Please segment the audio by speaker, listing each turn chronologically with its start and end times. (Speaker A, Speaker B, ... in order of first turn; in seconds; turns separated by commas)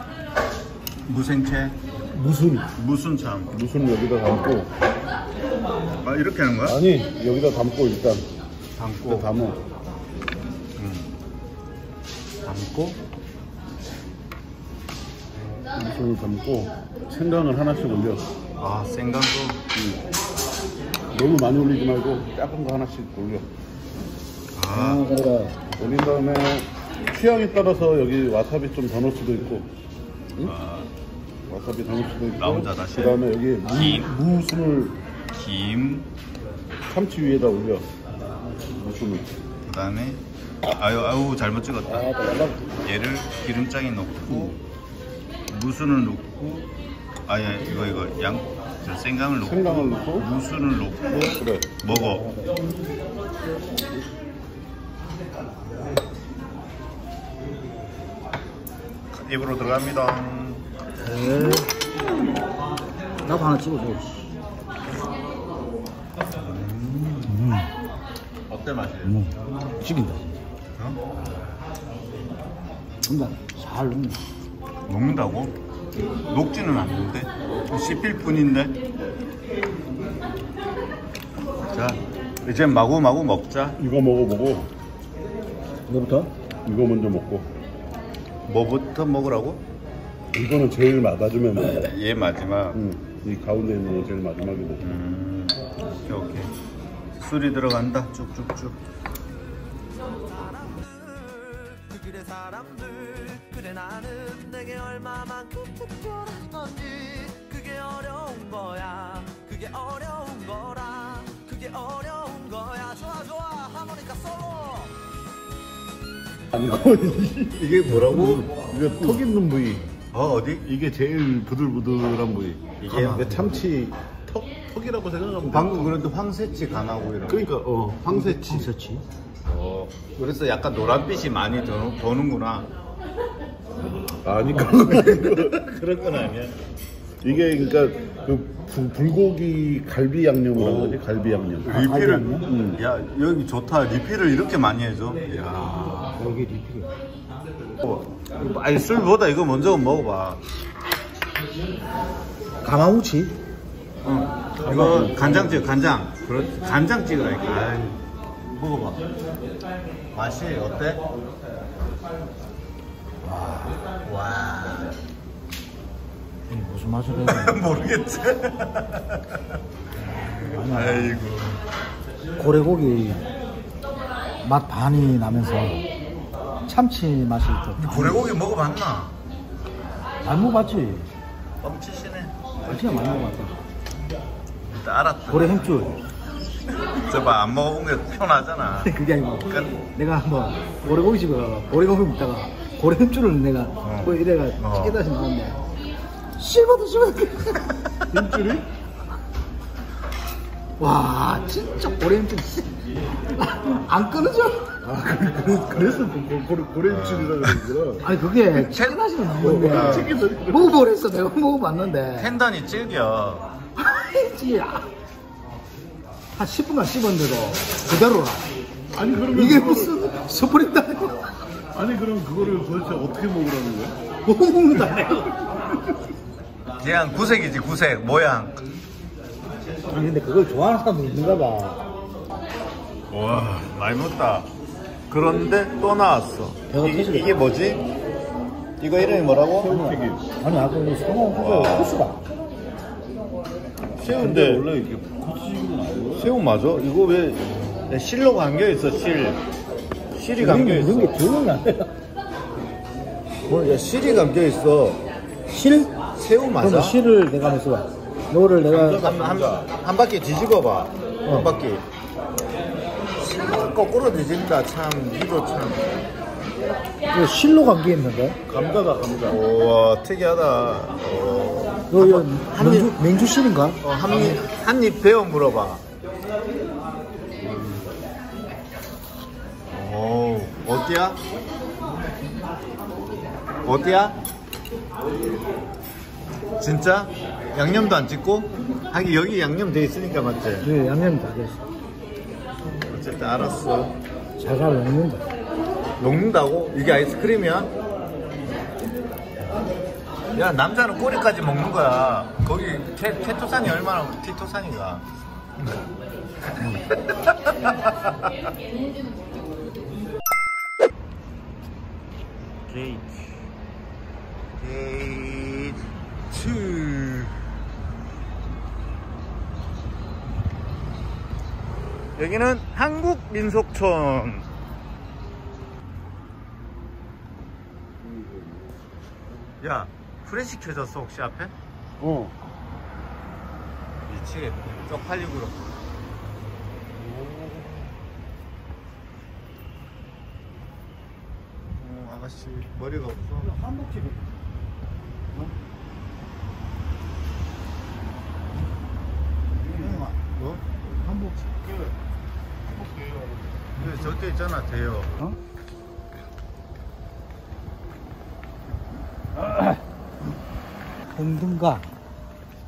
Speaker A: 1.1-1.8, Speaker B: 2.1-2.7, Speaker A: 2.7-3.5, Speaker B: 3.5-4.7, Speaker A: 6.0-6.8, Speaker B: 6.6-8.3, Speaker A: 8.7-9.3, Speaker B: 9.0-9.6, Speaker A: 10.8-11.2, Speaker A: 12.4-13.0, Speaker B: 15.7-18.3, Speaker A: 18.6-19.6, Speaker B: 19.7-20.0, Speaker B: 21.1-23.5, Speaker A: 24.5-25.1, Speaker C: 24.7-25.7, Speaker B: 25.8-29.7, Speaker A: 30.4-30.9, Speaker B: 31.5-35.0, Speaker A: 32.4-34.2, Speaker A: 35.3-36.1, Speaker B: 36.9-37.9, Speaker B: 38.7-39.3, Speaker A: 39.6-44.6, Speaker B: 44.3-44.5, Speaker A: 45.5-46.7, Speaker A: 47.2-52.3, Speaker B: 49.4-50.3, Speaker B: 51.2-51.9, Speaker C: 52.1-52.5, Speaker A: 59.1-60.6, Speaker C: 61.0-61.7, Speaker C: 63.2-64.3, Speaker A: 66.3-67.4, Speaker C: 67.3-67.7, Speaker A: 68.5-69.2, Speaker C: 69.0-70.4, Speaker A: 70.7-71.0, Speaker C: 73.0-74.2, Speaker A: 74.9-75.6, Speaker A: 76.3-78.7, Speaker A: 81.7-83.8, Speaker B: 83.8-84.7, Speaker C: 85.9-86.3, Speaker B: 86.7-87.5, Speaker A: 88.5-89.7, Speaker B: 90.3-91.9, Speaker A: 91.6-92.8, Speaker B: 92.7-94.9, Speaker A: 94.8-96.5, Speaker A: 97.2-98.8, Speaker D: 100.2-114.9, Speaker B: 116.5-119.9, Speaker A: 117.5-118.5, Speaker A: 120.1-120.7, Speaker B: 120.6-126.0, Speaker A: 122.8-123.4, Speaker A: 125.5-127.5, Speaker B: 127.3-128.7, Speaker C: 128.1-129.0, Speaker A: 129.4-132.7, Speaker B: 134.2-135.5, Speaker A: 134.9-136.6, Speaker B: 137.2-142.8, Speaker A: 140.5-141.0, Speaker A: 141.6-146.2, Speaker C: 141.7-142.5, Speaker C: 146.2-147.0, Speaker A: 147.8-150.4, Speaker C: 152.6-153.4, Speaker A: 154.0-159.0, Speaker B: 154.6-155.7, Speaker A: 160.1-161.0, Speaker C: 163.2-163.7, Speaker A: 163.6-164.9, Speaker C: 166.5-167.6, Speaker A: 167.2-169.4, Speaker C: 170.1-171.2, Speaker A: 170.7-171.7, Speaker C: 172.4-173.3, Speaker C: 174.4-175.8, Speaker C: 176.7-178.3, Speaker A: 177.8-179.2, Speaker C: 180.2-181.1, Speaker A: 181.6-182.3, Speaker C: 182.6-183.6, Speaker A: 184.7-186.0, Speaker C: 185.3-186.0, Speaker A: 186.9-188.9, Speaker C: 188.8-195.6, Speaker A: 189.4-189.8, Speaker A: 193.8-195.0, Speaker C: 196.4-198.2, Speaker B: 198.1-198.6, Speaker C: 200.8-206.1, Speaker B: 204.9-208.2, Speaker A: 206.9-207.5, Speaker C: 208.0-212.3, Speaker A: 208.7-210.2, Speaker B: 209.4-210.8, Speaker A: 212.2-213.5, Speaker C: 213.8-214.9, Speaker C: 216.3-218.5, Speaker B: 218.9-220.0, Speaker C: 219.3-221.3, Speaker B: 221.7-223.9, Speaker C: 224.2-225.4, Speaker A: 226.8-228.6, Speaker C: 229.9-231.8, Speaker A: 233.1-234.5, Speaker A: 235.1-237.8, Speaker C: 236.7-237.3, Speaker A: 238.8-239.8, Speaker B: 239.6-240.3, Speaker C: 239.7-242.2, Speaker A: 241.3-242.1, Speaker A: 244.0-244.6, Speaker B: 244.0-246.3, Speaker A: 246.2-249.4, Speaker A: 250.1-251.2, Speaker C: 250.3-251.9, Speaker A: 253.4-255.0, Speaker C: 255.5-256.0, Speaker A: 256.0-257.0, Speaker C: 256.6-259.0, Speaker A: 258.8-261.9, Speaker B: 258.8-259.7, Speaker C: 261.2-261.5, Speaker A: 263.2-266.0, Speaker C: 267.1-268.4, Speaker B: 268.5-269.4, Speaker A: 269.3-272.9, Speaker C: 271.9-273.8, Speaker A: 273.8-275.8, Speaker B: 277.4-278.0, Speaker A: 279.7-281.2, Speaker A: 283.6-284.2, Speaker A: 286.6-290.7, Speaker C: 290.6-291.6, Speaker A: 292.9-293.9, Speaker C: 294.4-295.3, Speaker A: 296.0-297.7, Speaker A: 300.3-305.1, Speaker A: 307.5-307.7, Speaker A: 312.7-313.4, Speaker A: 314.6-317.4, Speaker A: 322.1-324.5, Speaker B: 328.0-328.8, Speaker A: 329.6-331.5, Speaker B: 332.0-332.3, Speaker A: 334.1-335.7, Speaker A: 341.8-343.5, Speaker C: 343.4-344.3, Speaker B: 349.6-350.1, Speaker A: 349.8-350.6, Speaker C: 350.8-351.6, Speaker B: 351.6-351.9, Speaker B: 352.6-353.7, Speaker A: 353.8-355.2, Speaker C: 359.4-359.8, Speaker C: 361.1-361.9